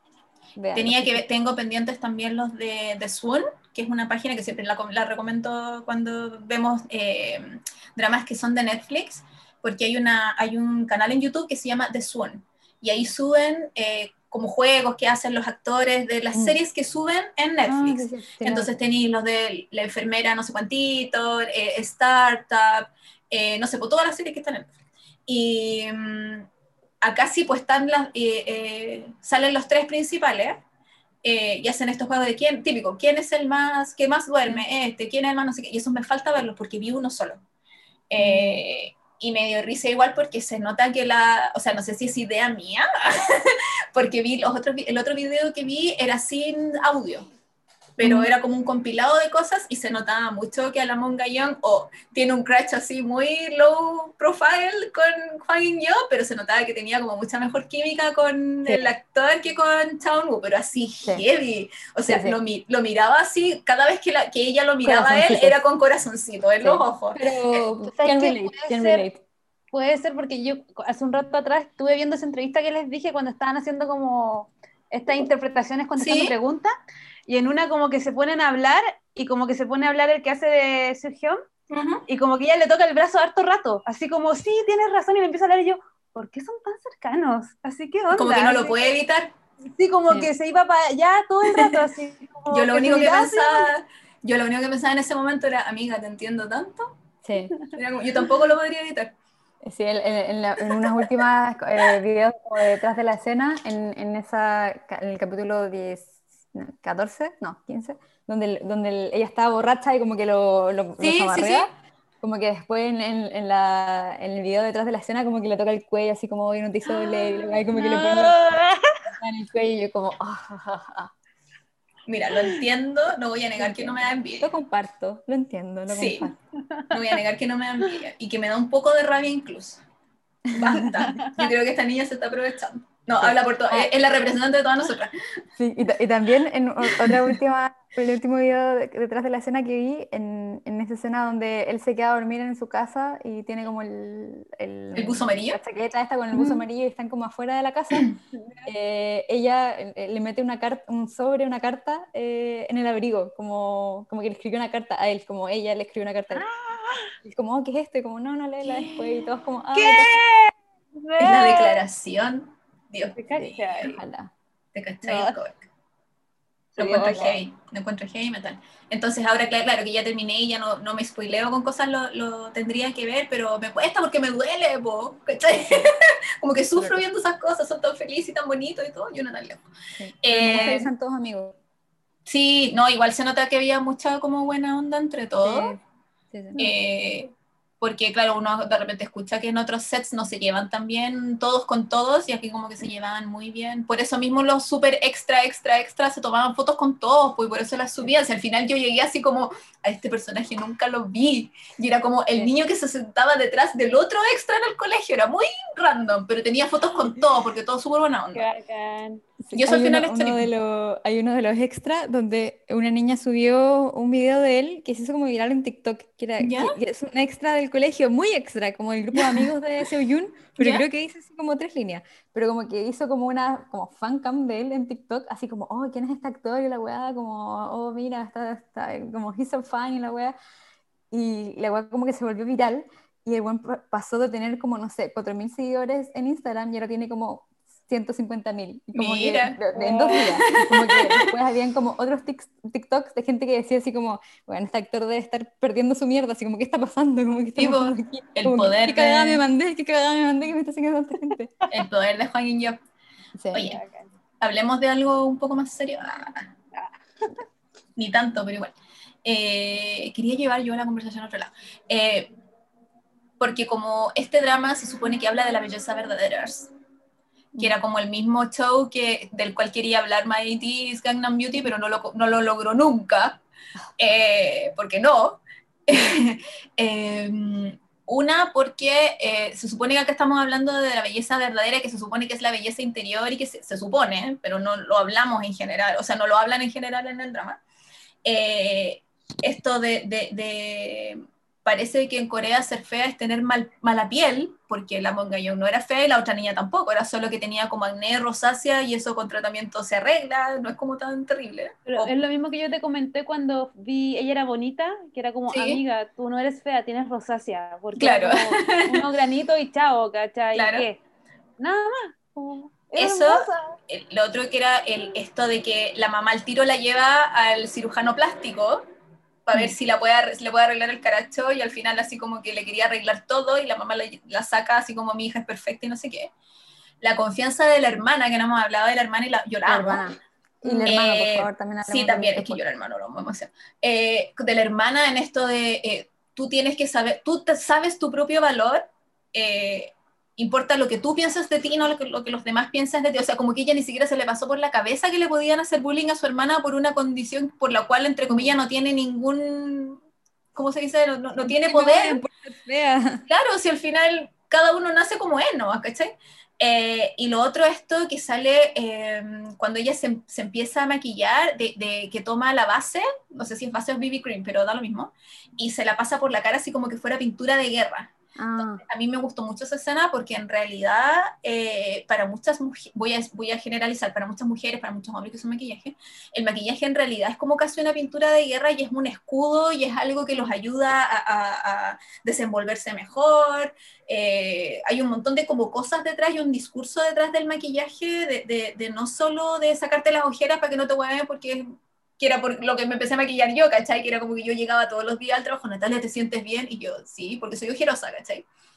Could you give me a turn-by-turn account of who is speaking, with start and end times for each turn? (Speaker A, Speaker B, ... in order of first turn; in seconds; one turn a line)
Speaker A: 0.6-1.2
Speaker B: 0.7-24.7
Speaker A: 17.6-18.7
Speaker B: 25.3-26.5
Speaker B: 27.0-30.6
Speaker B: 31.2-37.4
Speaker B: 38.1-47.3
Speaker A: 38.2-38.6
Speaker B: 48.0-67.3
Speaker A: 48.0-48.3
Speaker A: 58.6-58.9
Speaker A: 62.0-62.4
Speaker A: 64.8-65.6
Speaker A: 66.6-69.2
Speaker C: 67.9-69.0
Speaker C: 69.7-76.7
Speaker B: 76.0-76.3
Speaker C: 77.3-81.4
Speaker B: 81.7-82.0
Speaker C: 82.1-88.8
Speaker B: 88.1-89.3
Speaker C: 89.7-93.7
Speaker B: 92.5-97.0
Speaker A: 97.2-97.5
Speaker B: 97.7-99.1
Speaker A: 99.6-118.4
Speaker B: 111.0-111.7
Speaker C: 116.9-119.1
Speaker A: 119.1-121.1
Speaker B: 122.1-124.5
Speaker A: 123.6-126.4
Speaker B: 125.9-126.3
Speaker B: 126.9-129.8
Speaker A: 130.4-131.0
Speaker B: 130.5-135.1
Speaker C: 130.8-131.5
Speaker A: 133.2-133.9
Speaker A: 135.6-148.1
Speaker B: 144.9-145.6
Speaker B: 146.3-146.6
Speaker B: 147.9-148.2
Speaker C: 148.3-148.6
Speaker A: 148.6-156.4
Speaker C: 156.3-157.1
Speaker A: 157.2-160.2
Speaker C: 159.7-161.8
Speaker B: 161.2-163.8
Speaker C: 163.1-164.0
Speaker A: 163.8-164.3
Speaker B: 164.7-165.6
Speaker C: 165.0-165.3
Speaker C: 166.8-167.3
Speaker B: 166.8-179.7
Speaker A: 166.9-167.3
Speaker A: 176.8-177.0
Speaker A: 180.0-181.6
Speaker B: 180.2-180.9
Speaker B: 182.2-185.7
Speaker A: 185.4-185.8
Speaker A: 186.3-186.7
Speaker B: 186.6-208.5
Speaker C: 208.3-209.2
Speaker A: 209.4-230.3
Speaker B: 209.5-210.5
Speaker B: 216.4-216.8
Speaker A: 231.1-251.7
Speaker B: 238.9-241.3
Speaker C: 239.7-240.3
Speaker B: 247.6-249.4
Speaker B: 251.7-252.8
Speaker A: 253.4-253.7
Speaker B: 253.5-253.8
Speaker C: 253.5-254.1
Speaker B: 254.4-256.5
Speaker C: 256.7-257.4
Speaker B: 257.9-262.3
Speaker B: 263.4-266.7
Speaker B: 267.6-273.4
Speaker B: 274.0-287.6
Speaker B: 288.2-302.1
Speaker C: 301.9-311.0
Speaker B: 305.5-305.8
Speaker B: 308.0-309.1
Speaker B: 310.5-310.9
Speaker C: 311.6-313.8
Speaker B: 313.0-318.8
Speaker B: 319.4-326.3
Speaker B: 327.0-330.1
Speaker A: 329.6-332.6
Speaker B: 330.8-350.0
Speaker A: 348.3-348.5
Speaker B: 350.5-352.2
Speaker A: 351.4-353.2
Speaker B: 353.3-368.1
Speaker A: 368.4-368.8
Speaker B: 368.9-398.4